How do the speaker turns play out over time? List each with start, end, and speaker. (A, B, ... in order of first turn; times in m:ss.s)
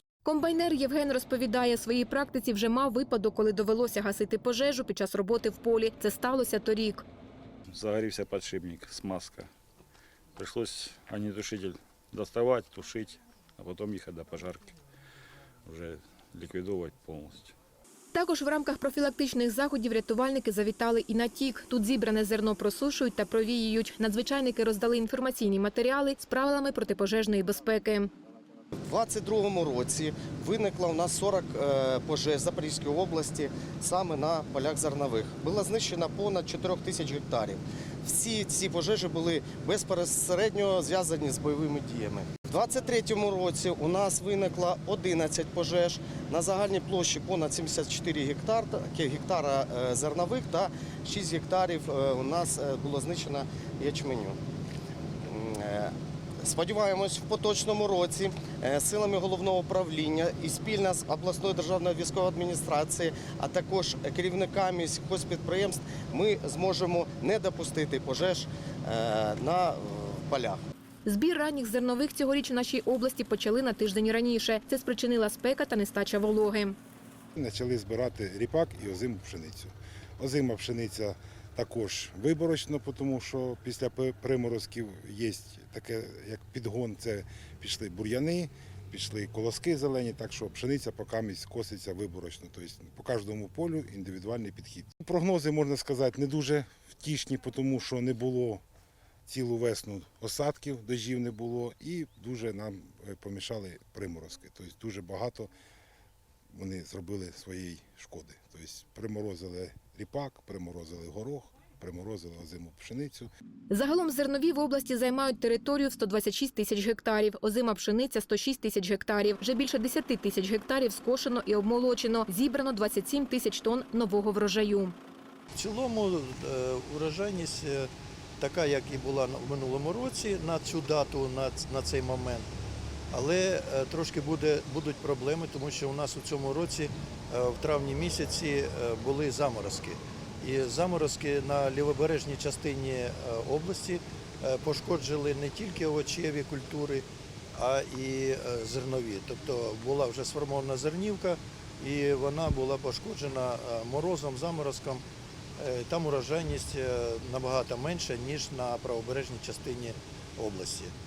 0:00.2-0:07.0 A
0:07.7-0:09.5 B
0:10.4-0:14.7 B
0:15.6-0:17.5 B
0:18.1-0:28.1 A
0:28.8-0:54.4 C
0:55.3-1:10.6 C
1:11.0-1:16.8 A
1:17.4-1:38.6 D
1:39.3-1:45.5 D
1:46.5-1:53.3 D
1:53.7-2:04.9 A
2:05.5-2:12.5 E
2:13.1-2:35.0 E
2:35.6-2:40.9 E